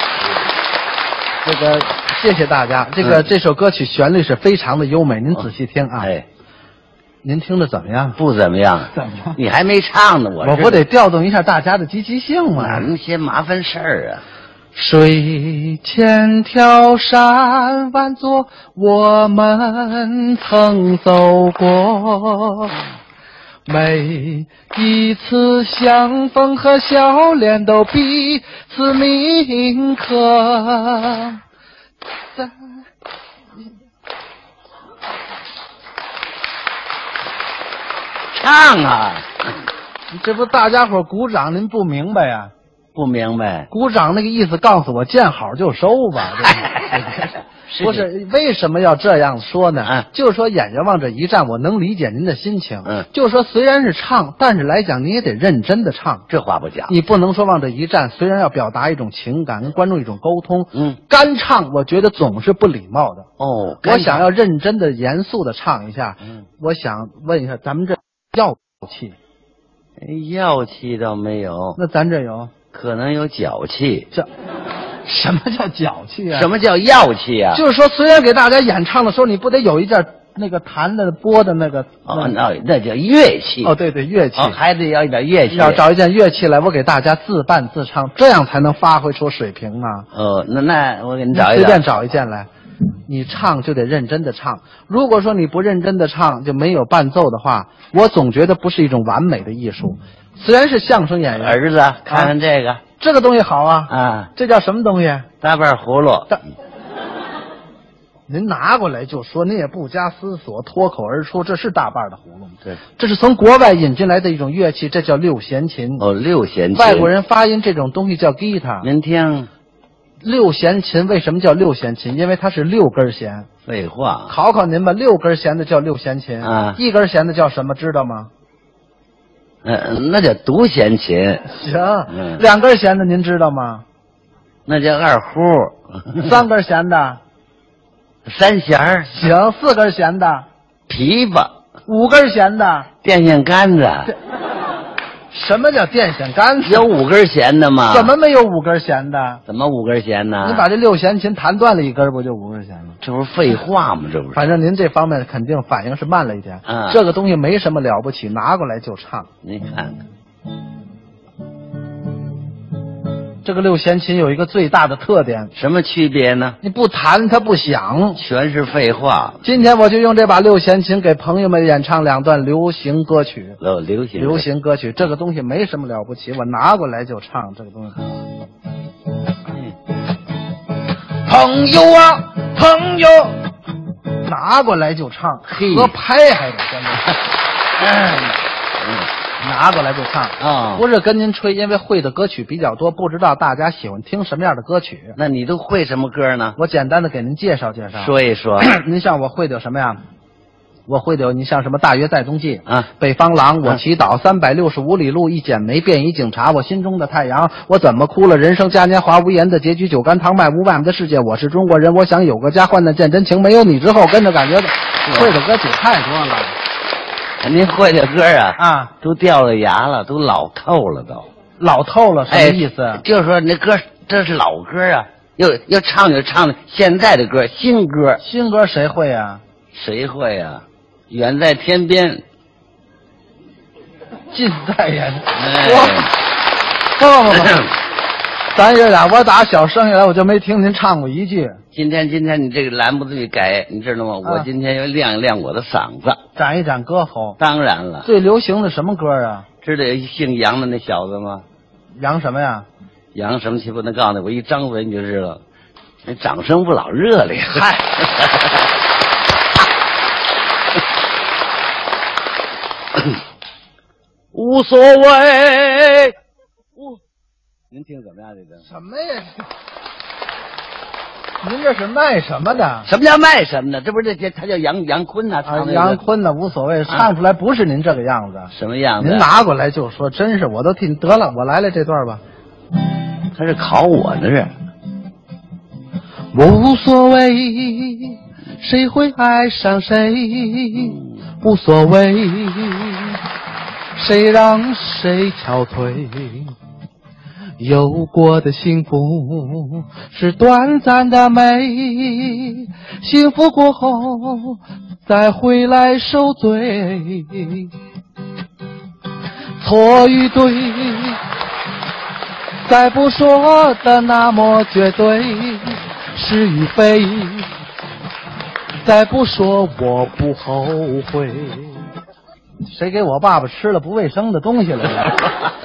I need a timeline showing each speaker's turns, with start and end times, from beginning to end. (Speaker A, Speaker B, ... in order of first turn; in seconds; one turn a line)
Speaker A: 1.4-6.1
Speaker B: 3.0-3.3
Speaker B: 6.0-6.2
Speaker A: 7.2-8.2
Speaker B: 8.2-10.8
Speaker A: 8.9-9.4
Speaker A: 10.4-12.9
Speaker B: 12.5-14.2
Speaker A: 14.7-22.8
Speaker A: 23.6-31.4
Speaker B: 38.3-39.3
Speaker A: 40.1-42.5
Speaker B: 42.9-43.7
Speaker A: 43.7-47.2
Speaker B: 46.4-48.1
Speaker A: 47.8-56.2
Speaker B: 56.3-56.9
Speaker A: 56.9-63.3
Speaker B: 63.4-64.3
Speaker A: 63.8-69.2
Speaker B: 70.0-71.8
Speaker A: 71.8-72.5
Speaker B: 72.7-74.1
Speaker A: 75.0-76.5
Speaker B: 76.3-77.6
Speaker A: 77.5-82.3
Speaker B: 82.0-83.7
Speaker A: 83.6-84.6
Speaker B: 84.3-85.8
Speaker A: 85.5-90.1
Speaker B: 90.1-91.9
Speaker A: 91.3-92.5
Speaker A: 93.1-102.3
Speaker B: 101.3-102.8
Speaker A: 103.0-105.3
Speaker B: 103.9-104.3
Speaker B: 105.4-106.4
Speaker A: 108.3-116.0
Speaker B: 116.0-117.1
Speaker A: 116.7-118.9
Speaker B: 118.8-119.5
Speaker A: 120.2-123.5
Speaker B: 123.7-124.4
Speaker A: 124.3-128.3
Speaker B: 126.4-126.8
Speaker B: 129.6-131.4
Speaker A: 131.4-133.8
Speaker B: 132.1-132.4
Speaker B: 134.7-136.4
Speaker A: 136.2-137.2
Speaker B: 138.2-139.3
Speaker A: 139.1-140.4
Speaker B: 140.9-141.5
Speaker A: 141.9-142.9
Speaker B: 143.0-144.1
Speaker A: 145.3-146.9
Speaker B: 146.6-148.1
Speaker A: 147.9-149.4
Speaker B: 149.5-150.7
Speaker A: 150.4-153.0
Speaker B: 153.0-154.5
Speaker A: 154.3-159.3
Speaker B: 156.7-157.0
Speaker B: 159.4-160.0
Speaker A: 163.4-165.5
Speaker B: 165.5-166.6
Speaker A: 166.6-168.2
Speaker B: 168.2-169.4
Speaker A: 169.4-173.6
Speaker B: 173.6-174.5
Speaker A: 174.2-178.0
Speaker A: 181.2-183.3
Speaker A: 184.2-187.1
Speaker B: 185.5-185.9
Speaker B: 187.8-188.4
Speaker A: 189.4-195.2
Speaker B: 190.4-190.8
Speaker B: 195.2-196.6
Speaker A: 196.6-200.0
Speaker B: 198.0-198.7
Speaker A: 200.9-216.6
Speaker B: 215.0-215.3
Speaker B: 217.4-221.3
Speaker A: 218.6-218.9
Speaker A: 221.6-223.0
Speaker B: 222.3-228.2
Speaker A: 228.2-229.4
Speaker B: 229.7-232.2
Speaker A: 234.3-236.0
Speaker B: 235.3-236.1
Speaker A: 236.9-237.7
Speaker B: 237.3-237.7
Speaker A: 238.5-241.6
Speaker B: 241.7-246.2
Speaker A: 244.2-244.5
Speaker A: 246.3-247.4
Speaker B: 247.4-248.1
Speaker A: 248.0-249.4
Speaker B: 249.6-251.4
Speaker A: 252.0-252.7
Speaker B: 253.1-255.4
Speaker B: 256.0-258.6
Speaker B: 264.3-266.1
Speaker B: 267.7-268.6
Speaker A: 268.6-269.5
Speaker A: 271.4-272.9
Speaker B: 272.8-276.0
Speaker A: 275.4-282.2
Speaker B: 278.5-279.3
Speaker B: 283.3-284.5
Speaker A: 286.3-293.2
Speaker A: 293.9-296.5
Speaker A: 297.6-307.7
Speaker A: 309.6-311.2
Speaker A: 312.6-317.5
Speaker A: 318.8-321.8
Speaker A: 322.6-325.2